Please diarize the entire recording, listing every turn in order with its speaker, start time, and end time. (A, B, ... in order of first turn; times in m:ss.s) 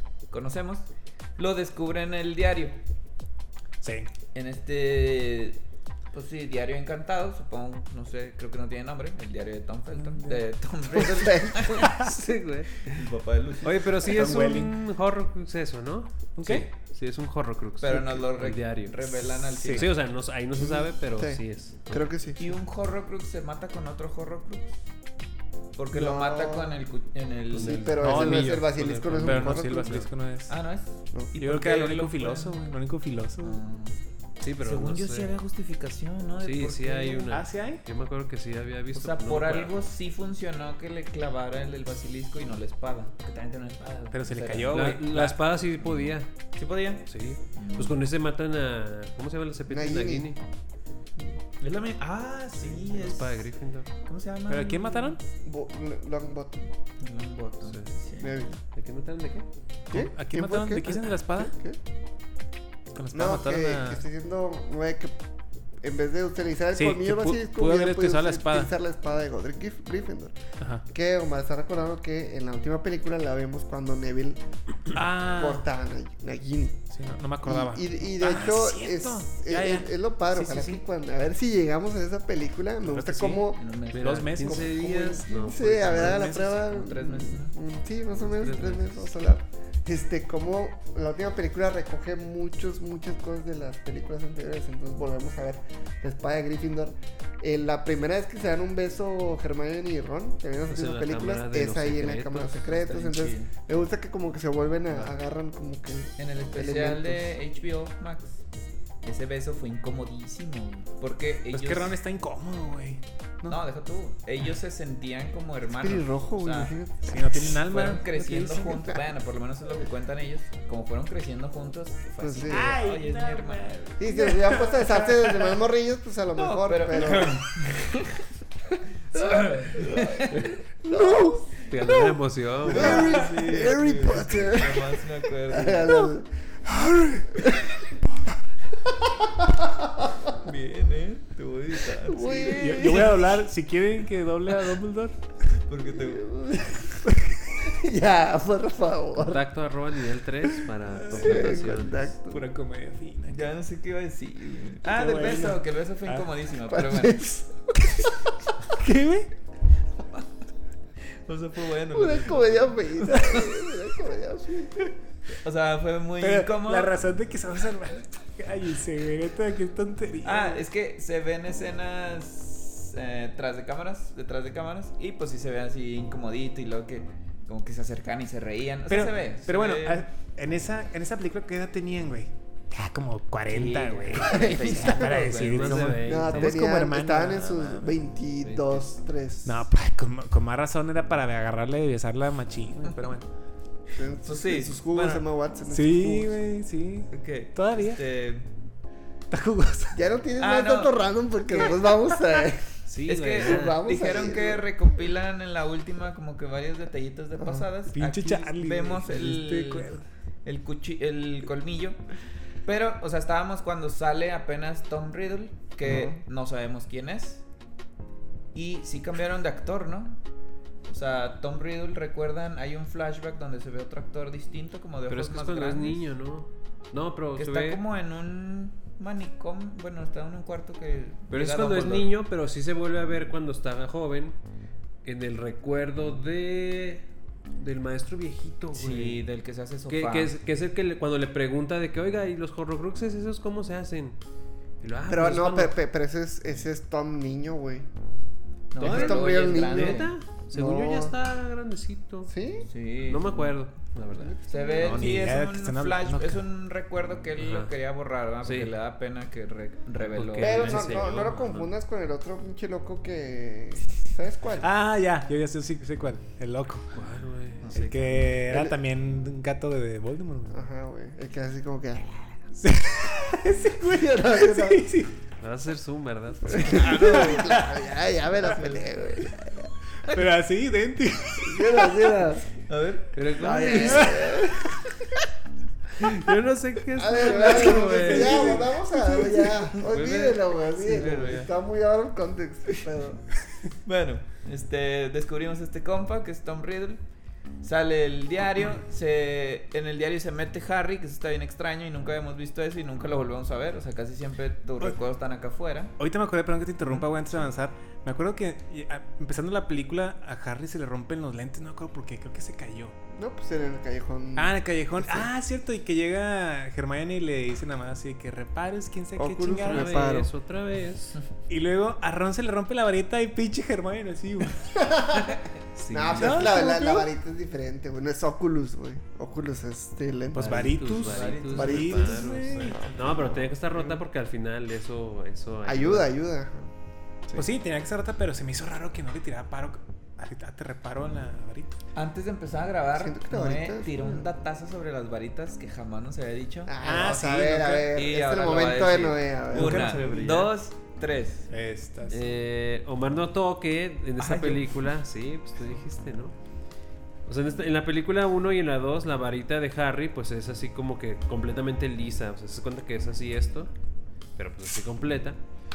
0:00.3-0:02.8 A
0:03.8-0:04.1 B
0:04.3-0:05.6 A
0:06.1-0:12.1 A
0:09.9-0:10.4 B
0:10.9-0:11.9 C
0:11.9-0:13.0 D
0:12.9-0:13.9 A
0:13.6-0:22.1 D
0:14.1-0:14.8 B
0:16.4-0:16.7 B
0:17.8-0:19.9 A
0:19.5-0:19.9 B
0:20.6-0:22.6 C
0:22.4-0:24.8 A
0:25.8-0:27.9 A
0:25.9-0:26.8 C
0:27.5-0:30.1 D
0:27.6-0:30.0 C
0:28.0-0:30.5 B
0:30.5-0:32.6 A
0:31.3-0:33.6 B
0:33.4-0:34.0 A
0:34.4-0:35.3 D
0:34.6-0:37.3 A
0:36.4-0:39.7 D
0:37.3-0:37.8 B
0:38.9-0:44.9 A
0:44.1-0:45.4 B
0:44.7-0:46.3 D
0:45.8-0:48.0 A
0:47.1-0:50.4 D
0:49.7-0:50.3 C
0:51.6-0:53.5 A
0:52.6-0:53.9 D
0:54.0-0:55.2 A
0:54.5-0:55.2 B
0:55.4-0:56.7 C
0:57.0-0:58.4 A
0:57.6-0:57.9 D
0:58.2-0:58.6 C
0:58.7-0:59.4 D
0:59.9-1:01.8 C
0:59.9-1:01.5 B
1:02.9-1:04.0 B
1:03.1-1:05.2 C
1:05.8-1:14.4 C
1:06.8-1:08.7 B
1:10.6-1:10.8 B
1:14.9-1:15.6 B
1:15.3-1:16.8 C
1:16.9-1:20.8 B
1:17.4-1:23.6 C
1:22.8-1:24.7 B
1:23.6-1:24.3 A
1:23.9-1:26.3 D
1:24.4-1:47.4 C
1:25.9-1:26.6 B
1:26.3-1:27.6 A
1:28.2-1:29.1 D
1:40.7-1:42.6 D
1:42.7-1:43.5 A
1:46.2-1:48.4 A
1:49.0-1:52.0 A
1:51.5-1:53.6 B
1:53.5-1:56.7 A
1:55.8-1:57.4 C
1:57.1-1:59.0 B
1:57.7-2:03.6 A
2:02.2-2:02.8 C
2:02.5-2:04.9 B
2:04.0-2:07.4 C
2:04.9-2:05.5 A
2:06.4-2:08.3 A
2:09.1-2:10.5 A
2:09.9-2:10.2 C
2:10.8-2:17.8 C
2:11.6-2:13.2 D
2:12.7-2:16.1 A
2:18.8-2:20.2 C
2:20.4-2:23.2 A
2:22.0-2:23.2 C
2:22.4-2:25.2 B
2:25.7-2:26.3 A
2:25.9-2:29.4 C
2:29.2-2:32.1 D
2:31.0-2:31.8 B
2:31.1-2:32.5 C
2:32.3-2:33.5 B
2:33.3-2:37.2 A
2:34.9-2:36.3 B
2:35.0-2:35.6 C
2:36.7-2:38.5 C
2:38.8-2:39.3 B
2:40.0-2:40.3 A
2:41.1-2:43.2 A
2:41.9-2:44.9 C
2:45.4-2:46.9 A
2:46.2-2:50.6 B
2:50.2-3:00.1 A
2:58.9-3:07.9 B
3:03.5-3:06.1 A
3:04.2-3:05.1 C
3:05.3-3:06.6 D
3:06.0-3:09.7 C
3:08.4-3:08.9 D
3:09.4-3:13.3 B
3:13.9-3:16.4 C
3:14.2-3:15.2 A
3:15.7-3:18.0 B
3:17.1-3:18.5 A
3:19.3-3:20.0 B
3:19.9-3:22.7 C
3:20.4-3:20.9 A
3:21.5-3:21.9 A
3:22.9-3:23.9 D
3:23.1-3:32.0 A
3:23.4-3:24.7 C
3:27.4-3:27.7 C
3:27.9-3:30.0 B
3:32.6-3:37.4 A
3:35.8-3:36.2 C
3:38.5-3:40.2 A
3:40.9-3:46.0 A
3:45.1-3:47.8 D
3:47.4-3:52.1 A
3:51.3-3:54.4 D
3:55.0-3:57.0 D
3:57.6-3:59.2 D
3:58.8-4:00.4 A
3:59.9-4:04.2 D
4:04.8-4:05.8 D
4:05.1-4:07.9 C
4:08.7-4:10.1 A
4:08.8-4:11.1 C
4:08.8-4:12.3 D
4:12.3-4:12.7 C
4:12.7-4:13.5 A
4:13.1-4:14.4 D
4:14.2-4:15.2 C
4:14.5-4:20.9 A
4:14.8-4:16.4 B
4:17.4-4:17.7 D
4:18.4-4:18.7 D
4:20.1-4:21.7 D
4:20.4-4:24.7 C
4:24.6-4:26.9 B
4:26.9-4:27.6 D
4:27.6-4:28.3 A
4:27.7-4:30.6 B
4:28.3-4:28.8 C
4:30.5-4:32.3 C
4:32.6-4:35.1 B
4:33.3-4:34.9 C
4:35.4-4:36.9 D
4:36.5-4:39.7 C
4:36.6-4:37.6 A
4:37.0-4:37.8 B
4:38.4-4:38.9 A
4:40.1-4:42.2 B
4:41.4-4:42.5 C
4:42.7-4:43.2 A
4:43.2-4:44.3 D
4:43.4-4:44.9 C
4:43.7-4:44.8 B
4:46.0-4:51.5 D
4:47.0-4:53.4 C
4:53.8-4:57.0 A
4:57.6-5:06.0 A
5:06.0-5:13.0 B
5:06.8-5:07.1 A
5:13.1-5:15.3 C
5:14.4-5:20.1 B
5:19.2-5:20.3 C
5:19.6-5:21.2 D
5:21.5-5:24.8 B
5:24.8-5:30.8 C
5:25.8-5:26.7 D
5:26.1-5:27.1 B
5:30.3-5:33.2 B
5:30.4-5:36.1 D
5:31.1-5:31.9 A
5:31.6-5:33.5 C
5:35.7-5:36.7 C
5:37.4-5:41.8 B
5:42.0-5:46.8 A
5:43.0-5:44.3 C
5:46.7-5:49.9 C
5:46.8-5:47.9 B
5:47.9-5:51.5 A
5:49.5-5:50.4 B
5:49.6-5:50.5 D
5:51.5-5:52.2 B
5:52.1-5:56.4 D
5:54.2-5:54.7 A
5:57.3-6:03.7 D
6:04.4-6:05.4 D